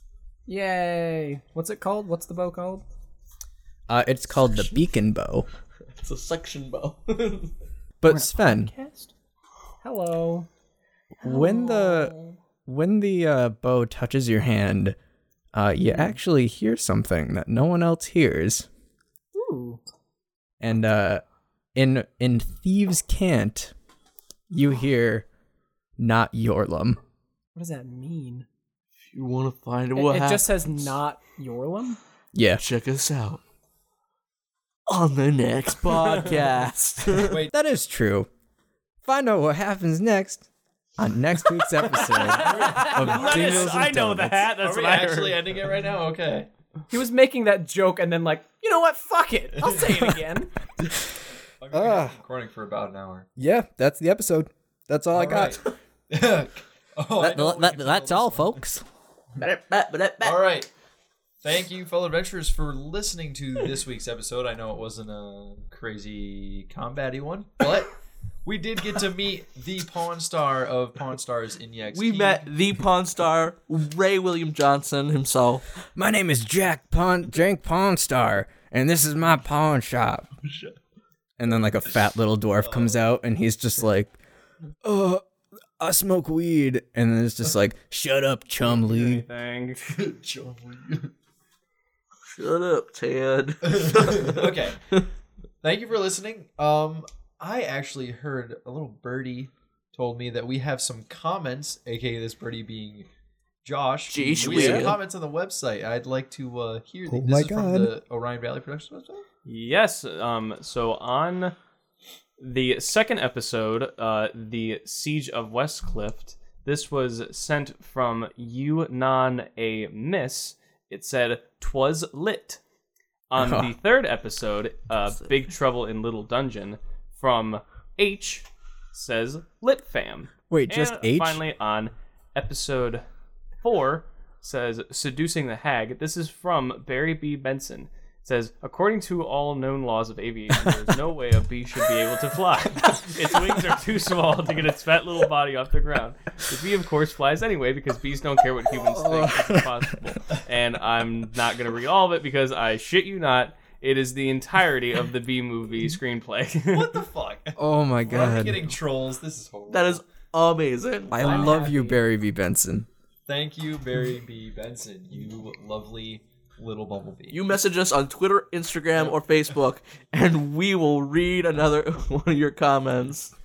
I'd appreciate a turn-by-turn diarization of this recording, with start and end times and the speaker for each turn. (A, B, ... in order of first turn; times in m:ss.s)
0:00.5-0:02.8 A
0:03.9-0:05.5 B
0:05.9-0:07.5 C
0:08.0-0:08.7 B
0:08.1-0:09.1 A
0:09.8-0:10.5 A
0:11.2-0:12.4 A
0:11.2-0:12.1 B
0:12.6-0:15.0 B
0:15.5-0:18.7 B
0:19.3-0:19.8 A
0:20.6-0:21.2 B
0:21.7-0:23.7 B
0:24.5-0:25.2 B
0:26.0-0:27.0 B
0:27.5-0:28.4 A
0:29.1-0:30.9 C
0:30.0-0:32.0 A
0:32.3-0:32.6 B
0:32.6-0:33.4 C
0:34.9-0:37.4 C
0:37.2-0:37.5 D
0:37.5-0:38.3 B
0:39.0-0:40.5 B
0:41.0-0:44.5 B
0:41.8-0:45.6 E
0:42.1-0:42.9 A
0:42.2-0:44.0 D
0:44.5-0:46.5 D
0:46.9-0:50.5 A
0:51.6-0:53.3 D
0:51.7-0:52.2 B
0:53.4-0:55.6 B
0:55.1-0:58.6 D
0:57.2-0:58.8 B
0:59.4-1:00.4 C
1:00.2-1:00.7 D
1:01.4-1:12.5 D
1:11.9-1:15.6 C
1:16.0-1:20.3 B
1:21.4-1:24.2 B
1:22.6-1:23.0 D
1:24.8-1:25.2 B
1:25.8-1:29.2 B
1:28.6-1:30.0 E
1:29.9-1:31.1 D
1:32.2-1:35.0 C
1:33.6-1:34.9 D
1:35.6-1:43.1 D
1:43.6-1:49.2 D
1:44.1-1:45.0 C
1:47.1-1:47.9 B
1:49.4-1:51.6 E
1:52.4-2:02.6 E
2:03.3-2:13.0 E
2:03.4-2:03.7 B
2:10.5-2:11.4 B
2:13.6-2:37.0 E
2:29.0-2:29.6 B
2:36.7-2:40.0 D
2:37.6-2:38.7 B
2:39.7-2:41.4 C
2:41.1-2:42.9 B
2:41.2-2:42.0 A
2:43.3-2:47.4 D
2:47.3-2:53.3 C